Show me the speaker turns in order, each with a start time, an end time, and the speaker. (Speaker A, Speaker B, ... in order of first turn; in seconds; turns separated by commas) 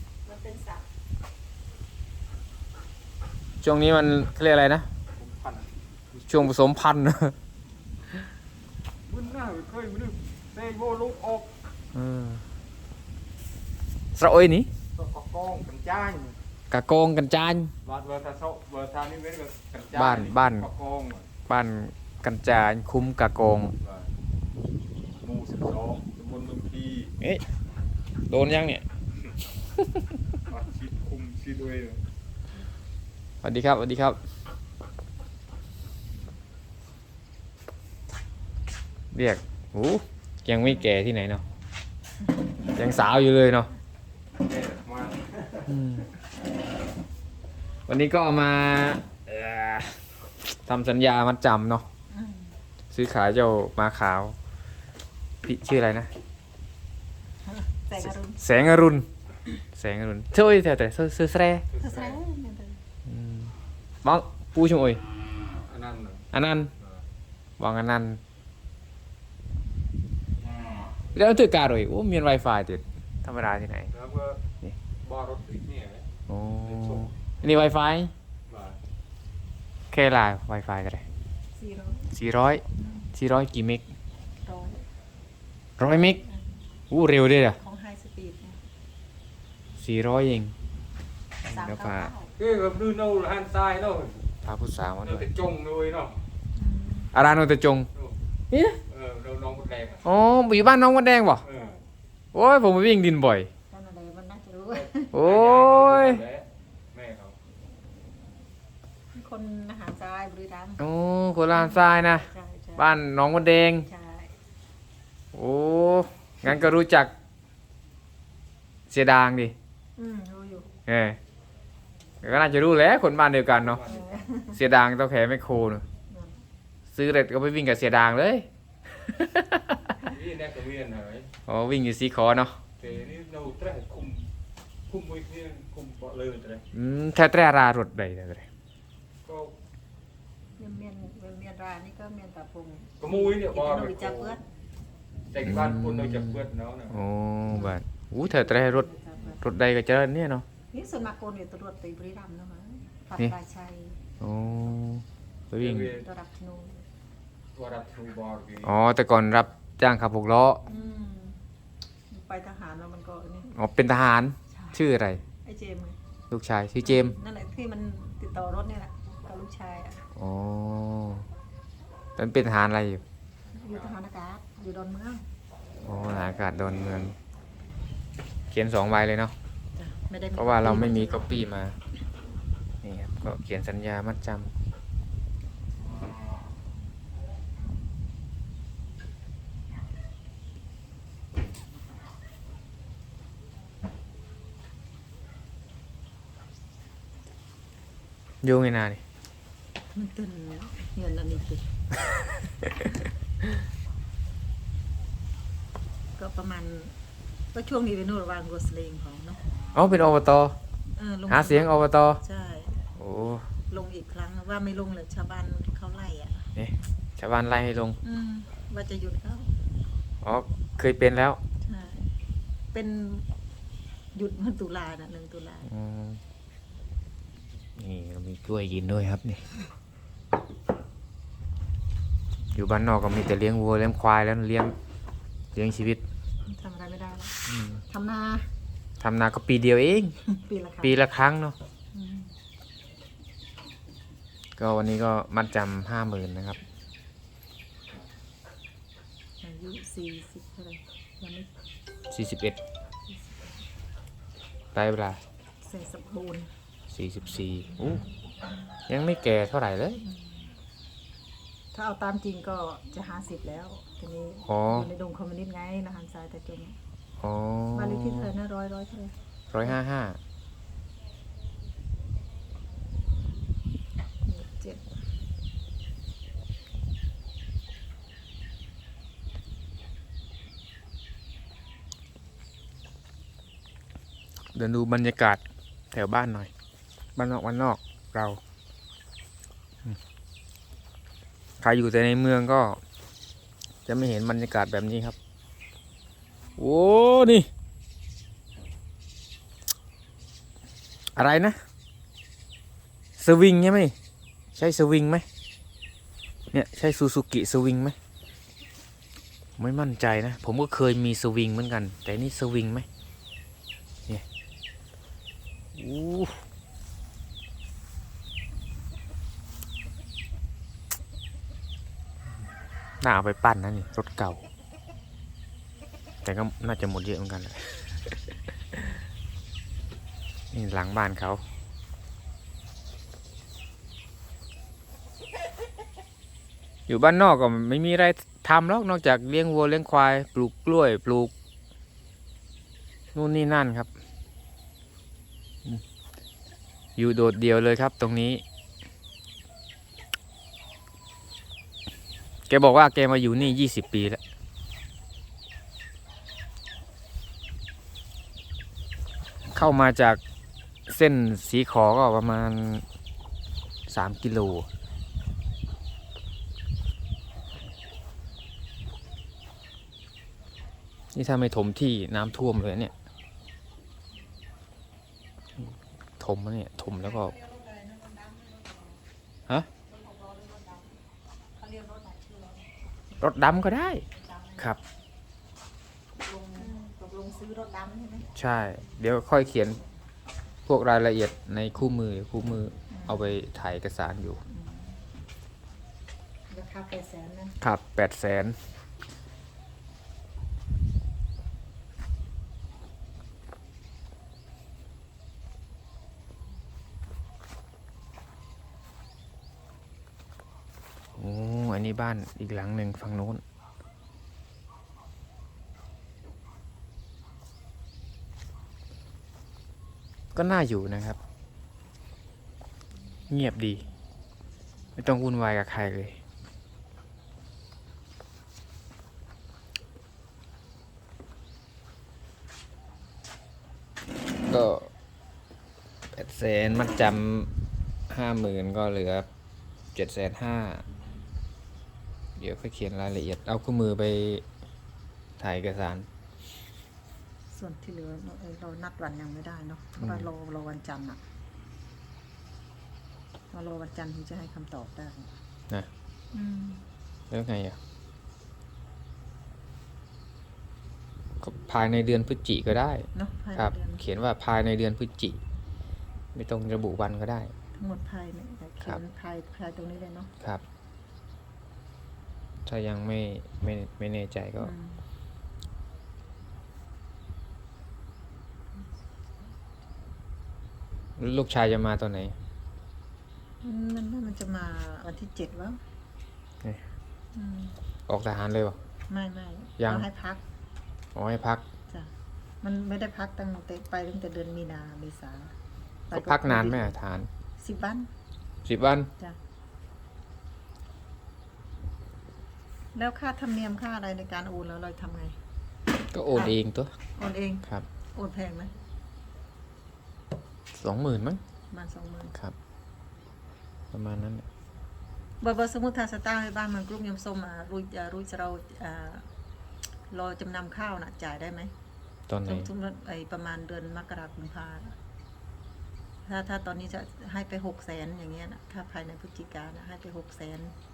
Speaker A: 0.2-0.9, Speaker B: 3.6-4.9, Speaker C: 5.2-5.7, Speaker B: 6.3-7.4, Speaker C: 9.1-11.5, Speaker B: 11.9-12.4, Speaker B: 14.2-14.7, Speaker C: 14.9-16.4, Speaker B: 16.7-17.7, Speaker C: 17.9-21.3, Speaker B: 19.9-20.7, Speaker B: 21.5-23.7, Speaker C: 23.8-24.1, Speaker C: 25.2-27.1, Speaker B: 28.3-28.9, Speaker B: 29.8-30.1, Speaker C: 30.5-32.0, Speaker B: 33.4-34.2, Speaker B: 39.1-41.4, Speaker B: 42.7-43.7, Speaker C: 44.4-45.7, Speaker B: 45.7-46.1, Speaker B: 47.9-50.0, Speaker B: 50.6-51.9, Speaker A: 52.1-52.6, Speaker B: 52.9-54.4, Speaker B: 55.4-56.1, Speaker A: 57.5-58.4, Speaker B: 58.0-59.1, Speaker B: 59.8-61.7, Speaker C: 61.7-62.2, Speaker A: 61.8-62.8, Speaker B: 63.1-65.0, Speaker C: 65.6-66.2, Speaker B: 66.3-66.7, Speaker B: 67.6-68.2, Speaker B: 71.1-73.9, Speaker C: 73.9-74.4, Speaker C: 75.0-76.1, Speaker B: 76.3-78.1, Speaker C: 76.7-77.1, Speaker C: 78.5-78.8, Speaker B: 79.9-81.0, Speaker A: 81.6-82.1, Speaker B: 82.1-82.6, Speaker A: 82.8-83.1, Speaker B: 83.1-83.8, Speaker A: 84.4-84.8, Speaker B: 85.8-86.2, Speaker B: 86.9-87.6, Speaker A: 87.6-88.6, Speaker B: 89.8-90.5, Speaker A: 91.5-92.4, Speaker B: 91.5-92.1, Speaker C: 92.4-94.2, Speaker B: 94.4-95.3, Speaker C: 95.0-96.2, Speaker A: 96.6-97.1, Speaker B: 97.1-97.9, Speaker B: 98.5-98.8, Speaker C: 98.9-100.0, Speaker B: 100.0-101.5, Speaker C: 101.4-101.8, Speaker B: 102.3-103.5, Speaker A: 103.7-105.2, Speaker C: 104.7-107.4, Speaker B: 105.1-106.2, Speaker A: 109.1-110.8, Speaker B: 110.8-113.9, Speaker A: 111.5-112.9, Speaker A: 113.8-114.3, Speaker B: 115.3-117.1, Speaker B: 118.9-119.5, Speaker A: 120.0-120.7, Speaker B: 120.9-121.2, Speaker B: 122.2-123.8, Speaker C: 123.6-124.1, Speaker A: 123.8-124.6, Speaker B: 124.5-125.8, Speaker A: 126.1-126.4, Speaker B: 126.9-128.5, Speaker B: 129.0-130.0, Speaker C: 130.1-131.3, Speaker B: 131.5-132.6, Speaker C: 132.8-134.3, Speaker C: 134.9-136.6, Speaker B: 136.7-138.5, Speaker C: 139.2-139.5, Speaker A: 140.6-144.4, Speaker C: 143.0-144.4, Speaker C: 145.3-147.0, Speaker B: 145.4-150.4, Speaker A: 147.5-149.4, Speaker A: 150.7-154.0, Speaker B: 154.2-155.9, Speaker C: 155.6-156.0, Speaker A: 155.9-156.8, Speaker C: 157.6-158.8, Speaker B: 158.6-160.6, Speaker A: 160.7-161.4, Speaker A: 162.1-163.5, Speaker B: 163.5-165.2, Speaker A: 164.5-164.8, Speaker A: 165.4-166.0, Speaker B: 166.3-167.2, Speaker A: 166.8-170.1, Speaker B: 170.2-171.3, Speaker B: 172.2-173.0, Speaker A: 173.5-175.2, Speaker B: 175.8-177.2, Speaker B: 178.5-179.3, Speaker A: 179.8-181.3, Speaker B: 180.4-181.8, Speaker B: 182.8-184.5, Speaker B: 198.4-199.0, Speaker A: 199.9-201.7, Speaker A: 206.2-206.9, Speaker A: 207.5-209.4, Speaker B: 209.7-210.6, Speaker A: 210.9-212.8, Speaker B: 211.3-212.2, Speaker B: 213.0-213.5, Speaker A: 213.7-216.5, Speaker B: 216.6-218.0, Speaker A: 218.0-219.5, Speaker B: 220.2-221.4, Speaker A: 221.6-222.2, Speaker A: 222.7-223.3, Speaker A: 224.1-225.7, Speaker B: 225.7-226.2, Speaker B: 227.8-229.4, Speaker B: 232.5-234.7, Speaker B: 235.5-236.0, Speaker A: 236.5-238.5, Speaker B: 237.5-237.8, Speaker B: 239.0-240.1, Speaker A: 240.2-241.0, Speaker B: 240.8-241.6, Speaker A: 241.9-242.3, Speaker B: 244.6-246.6, Speaker A: 249.4-251.5, Speaker B: 252.1-252.6, Speaker A: 253.1-253.5, Speaker B: 254.7-255.2, Speaker A: 255.7-256.5, Speaker B: 256.9-258.0, Speaker B: 258.9-260.0, Speaker A: 260.1-260.5, Speaker A: 261.7-266.8, Speaker B: 264.5-264.9, Speaker B: 267.2-268.3, Speaker A: 267.7-269.8, Speaker B: 269.5-270.2, Speaker A: 274.3-275.0, Speaker B: 284.6-285.4, Speaker B: 285.9-286.5, Speaker B: 287.2-288.4, Speaker B: 291.6-292.8, Speaker B: 293.9-295.2, Speaker B: 296.6-297.5, Speaker B: 301.2-301.6, Speaker B: 303.2-303.9, Speaker B: 304.6-305.2, Speaker B: 306.5-308.0, Speaker B: 309.6-312.9, Speaker B: 315.8-316.4, Speaker B: 323.0-324.4, Speaker B: 326.2-327.9, Speaker B: 330.5-331.4, Speaker B: 336.9-341.3, Speaker B: 343.1-343.9, Speaker B: 347.0-348.4, Speaker B: 352.5-354.2, Speaker B: 359.5-360.2, Speaker B: 360.9-362.8, Speaker B: 363.9-364.7, Speaker B: 371.1-372.9, Speaker B: 376.2-377.4, Speaker A: 377.3-378.8, Speaker A: 379.9-381.0, Speaker A: 381.6-382.7, Speaker B: 383.2-384.1, Speaker A: 384.1-384.6, Speaker A: 386.2-388.3, Speaker B: 388.4-389.8, Speaker B: 390.7-394.4, Speaker A: 392.9-393.4, Speaker A: 394.5-395.0, Speaker A: 396.5-397.6, Speaker B: 397.6-398.6, Speaker B: 411.2-413.4, Speaker B: 420.4-421.2, Speaker B: 423.3-423.8, Speaker B: 425.0-426.2, Speaker B: 434.4-434.9, Speaker B: 436.1-437.5, Speaker B: 438.1-439.3, Speaker B: 439.9-440.8, Speaker B: 442.4-444.4, Speaker B: 445.4-446.1, Speaker A: 447.5-451.2, Speaker B: 450.0-450.3, Speaker A: 453.5-455.3, Speaker A: 456.3-456.8, Speaker B: 457.3-457.8, Speaker B: 461.4-465.4, Speaker A: 463.1-464.0, Speaker B: 466.3-467.5, Speaker A: 467.8-470.3, Speaker B: 472.7-474.7, Speaker A: 474.6-475.1, Speaker B: 481.2-482.4, Speaker A: 483.6-485.8, Speaker A: 487.4-487.8, Speaker B: 488.1-488.8, Speaker A: 489.1-490.4, Speaker B: 489.8-490.1, Speaker B: 491.1-491.6, Speaker A: 492.6-495.6, Speaker A: 496.1-497.0, Speaker B: 496.1-497.3, Speaker A: 497.6-498.1, Speaker B: 498.6-499.1, Speaker A: 502.9-505.4, Speaker B: 506.1-506.9, Speaker A: 506.3-506.6, Speaker A: 507.2-508.7, Speaker B: 510.8-511.4, Speaker A: 511.7-512.4, Speaker B: 513.9-514.5, Speaker A: 515.4-519.3, Speaker A: 520.1-521.7, Speaker B: 522.3-522.7, Speaker A: 522.5-525.0, Speaker A: 526.3-530.8